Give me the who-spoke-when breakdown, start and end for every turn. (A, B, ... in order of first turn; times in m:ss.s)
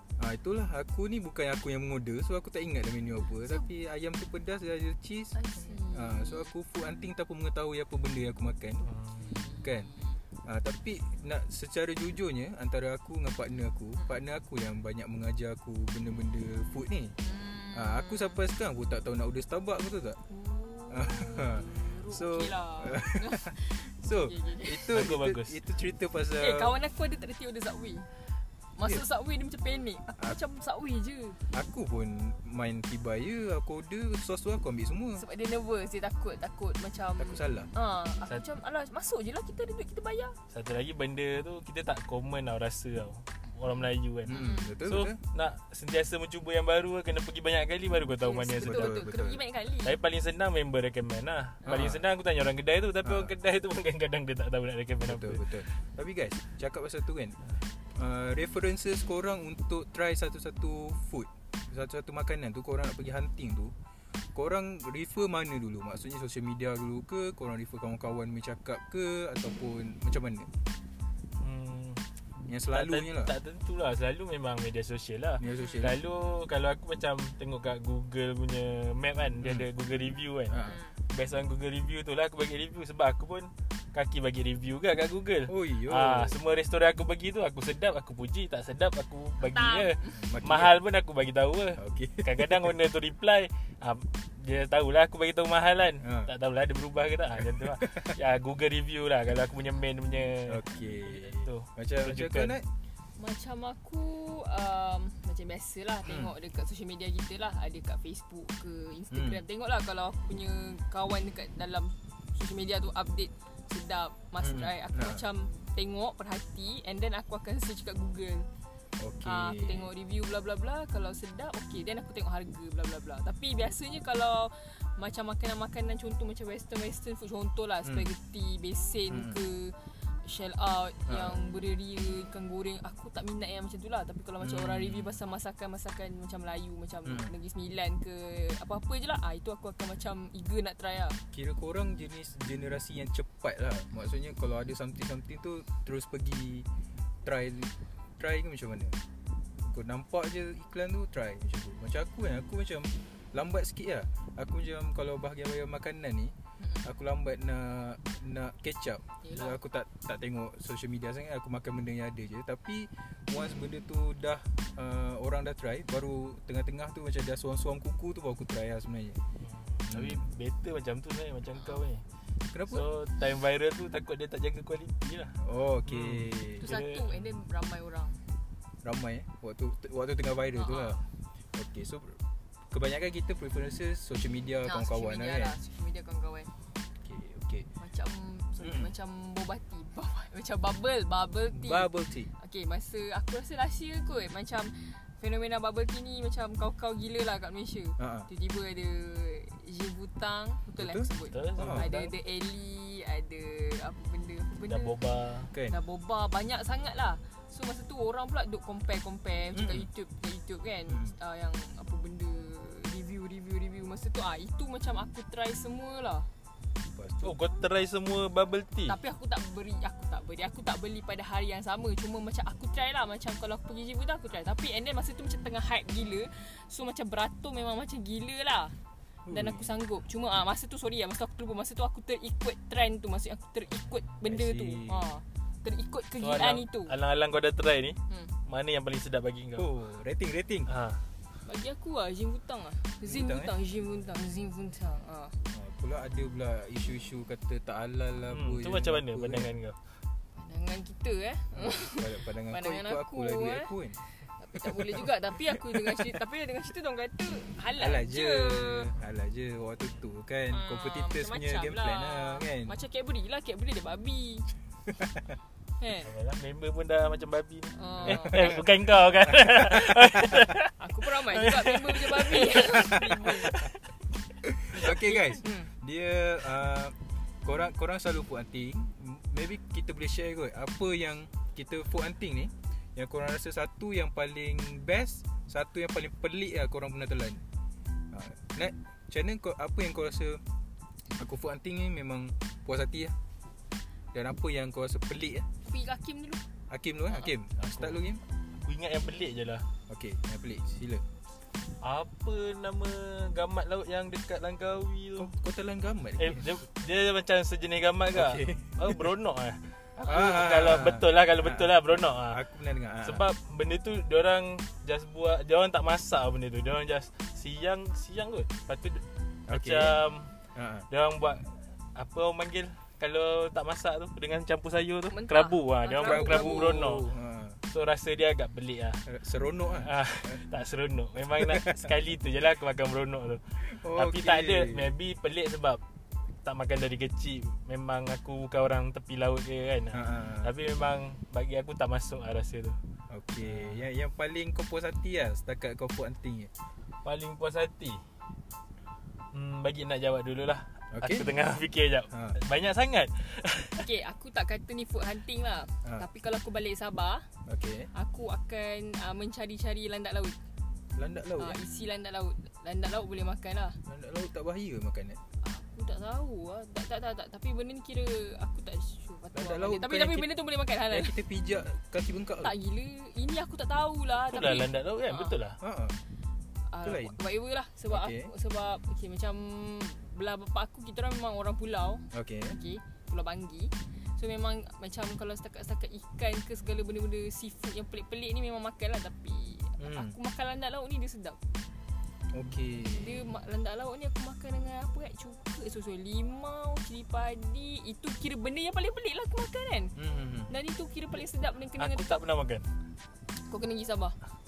0:00.2-0:08.9 A
0:05.4-0:06.5 B
0:08.8-0:09.3 C
0:09.2-0:10.2 B
0:09.6-0:09.9 A
0:10.4-0:17.2 A
0:17.2-0:18.4 B
0:17.7-0:20.2 A
0:20.3-0:24.9 B
0:20.9-0:26.8 A
0:24.9-0:25.6 C
0:26.4-0:28.1 B
0:28.8-0:31.4 B
0:31.5-0:35.2 A
0:35.2-0:40.4 B
0:37.2-0:37.7 A
0:40.5-0:49.0 C
0:43.7-0:44.7 B
0:44.2-0:45.2 A
0:48.2-0:50.0 B
0:48.6-0:49.4 A
0:49.8-0:55.6 C
0:51.6-0:52.0 A
0:53.0-0:53.3 A
0:55.0-0:57.4 A
0:57.9-1:03.8 A
1:04.3-1:10.5 A
1:11.4-1:42.6 C
1:12.5-1:13.3 A
1:15.4-1:16.0 A
1:15.6-1:15.8 B
1:19.4-1:19.7 A
1:20.5-1:20.8 A
1:20.6-1:21.0 B
1:25.5-1:26.4 A
1:29.4-1:30.2 B
1:30.2-1:30.8 A
1:31.8-1:32.7 A
1:36.0-1:36.3 A
1:37.4-1:38.2 A
1:40.5-1:42.7 A
1:43.2-1:58.5 B
1:46.0-1:46.3 A
1:49.1-1:49.4 A
1:54.4-1:55.2 A
1:59.0-1:59.9 A
1:59.2-2:21.2 B
2:09.1-2:09.4 A
2:11.1-2:11.4 A
2:14.4-2:15.2 A
2:21.3-2:26.7 A
2:27.2-2:29.0 A
2:29.6-2:49.2 A
2:36.6-2:36.8 B
2:39.2-2:39.6 B
2:49.4-2:52.0 C
2:49.9-2:50.2 A
2:52.5-2:52.9 A
2:52.7-2:57.2 C
2:55.4-2:56.7 A
2:56.6-2:58.2 B
2:58.8-3:01.0 A
3:00.6-3:01.0 B
3:01.5-3:05.6 A
3:04.6-3:06.5 B
3:07.0-3:07.7 A
3:07.8-3:25.0 B
3:08.6-3:08.9 A
3:11.5-3:12.3 A
3:18.0-3:18.3 A
3:20.8-3:21.1 A
3:21.3-3:22.1 C
3:21.6-3:21.9 A
3:24.7-3:25.5 C
3:25.7-3:36.3 B
3:29.5-3:29.9 A
3:37.0-3:37.4 A
3:37.2-3:39.0 C
3:38.9-3:48.8 B
3:49.3-3:49.7 A
3:49.3-3:57.0 B
3:54.2-3:55.2 A
3:56.2-3:59.7 C
3:58.1-3:58.3 B
3:59.6-4:00.7 A
4:00.7-4:01.0 C
4:01.4-4:05.4 B
4:03.0-4:03.5 A
4:05.5-4:09.5 A
4:08.3-4:09.8 C
4:10.4-4:18.9 B
4:11.5-4:14.0 A
4:14.6-4:15.1 A
4:15.6-4:16.1 A
4:17.8-4:22.8 A
4:20.5-4:24.5 B
4:24.9-4:25.2 A
4:25.8-4:26.1 B
4:26.0-4:33.7 C
4:27.8-4:28.6 B
4:28.0-4:28.6 A
4:29.3-4:30.4 A
4:30.8-4:33.6 B
4:34.4-4:47.4 A
4:34.8-4:35.7 B
4:48.1-4:50.4 A
4:51.2-4:53.2 A
4:54.1-4:55.5 A
4:55.6-4:56.4 B
4:56.7-4:58.2 A
4:57.8-4:58.0 C
4:58.6-4:59.7 C
4:59.9-5:01.0 A
5:01.8-5:05.3 C
5:05.2-5:06.5 A
5:06.2-5:12.4 C
5:08.1-5:09.0 A
5:10.0-5:13.3 A
5:13.0-5:20.3 C
5:19.5-5:20.0 A
5:20.5-5:20.9 A
5:20.9-5:27.1 C
5:25.1-5:26.8 B
5:26.0-5:27.6 A
5:27.7-5:29.0 C
5:29.1-5:30.4 A
5:29.8-5:35.8 C
5:31.3-5:31.9 A
5:33.6-5:34.9 A
5:36.4-5:42.8 C
5:39.9-5:40.5 A
5:43.1-5:46.5 A
5:43.4-5:43.8 C
5:47.0-5:48.0 C
5:49.3-5:53.9 C
5:50.9-5:51.3 A
5:52.1-5:52.4 A
5:53.8-5:57.3 B
5:57.5-5:57.9 A
5:57.9-6:00.4 B
6:01.0-6:01.6 A
6:01.4-6:03.8 B
6:03.9-6:05.2 A
6:05.4-6:11.2 B
6:09.3-6:10.3 A
6:10.9-6:12.5 A
6:12.4-6:15.4 B
6:14.3-6:15.6 C
6:15.6-6:16.0 A
6:16.7-6:31.4 B
6:16.8-6:17.2 A
6:17.9-6:18.3 A
6:22.1-6:22.6 A
6:29.8-6:30.2 A
6:32.3-6:33.2 A
6:33.0-6:39.9 B
6:40.0-6:40.5 A
6:40.5-6:42.2 B
6:41.8-6:42.7 C
6:43.5-6:44.2 B